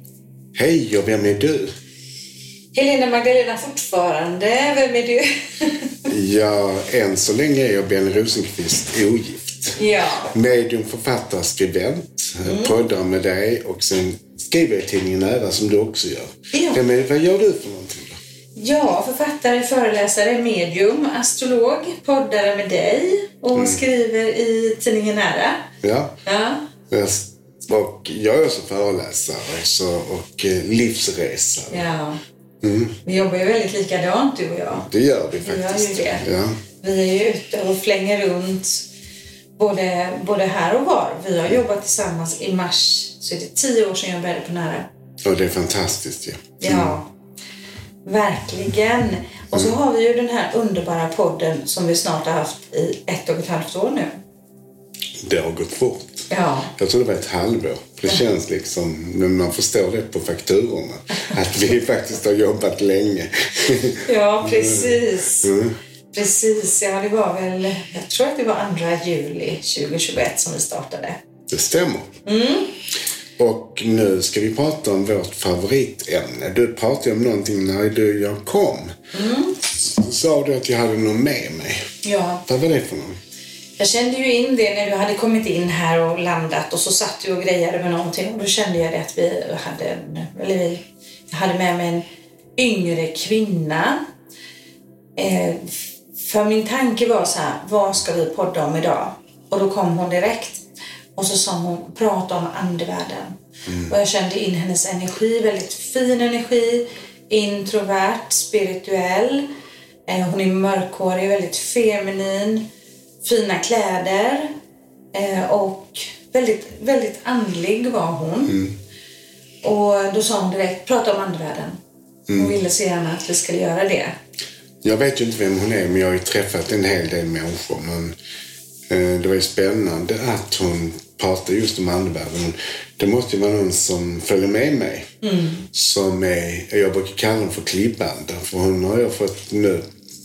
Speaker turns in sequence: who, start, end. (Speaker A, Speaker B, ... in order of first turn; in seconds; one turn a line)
Speaker A: 0.5-1.7
Speaker B: 2.7-6.1
Speaker A: 6.1-18.2
Speaker B: 9.7-10.3
Speaker B: 12.4-12.7
Speaker B: 16.5-16.8
Speaker B: 18.6-25.7
Speaker A: 23.5-23.8
Speaker A: 25.8-26.1
Speaker B: 26.2-26.7
Speaker A: 26.9-31.8
Speaker B: 31.7-32.2
Speaker A: 32.6-33.0
Speaker B: 33.0-34.9
Speaker A: 34.8-36.6
Speaker B: 35.4-36.2
Speaker B: 36.8-38.8
Speaker B: 39.6-44.9
Speaker A: 45.2-47.0
Speaker B: 46.6-47.1
Speaker B: 48.0-54.1
Speaker A: 55.2-65.8
Speaker B: 56.3-56.7
Speaker B: 64.0-65.5
Speaker B: 66.1-71.2
Speaker A: 71.5-72.1
Speaker B: 72.2-72.7
Speaker A: 73.4-78.9
Speaker B: 79.1-79.6
Speaker A: 79.6-81.9
Speaker B: 82.0-82.4
Speaker A: 82.5-83.2
Speaker B: 83.8-92.0
Speaker B: 92.5-94.0
Speaker B: 95.2-109.5
Speaker A: 103.7-103.9
Speaker B: 110.1-112.7
Speaker B: 113.2-114.5
Speaker B: 115.1-118.6
Speaker B: 119.6-121.8
Speaker A: 122.3-122.5
Speaker B: 122.3-124.1
Speaker A: 124.8-128.1
Speaker A: 128.9-135.1
Speaker B: 135.2-135.7
Speaker A: 135.7-139.8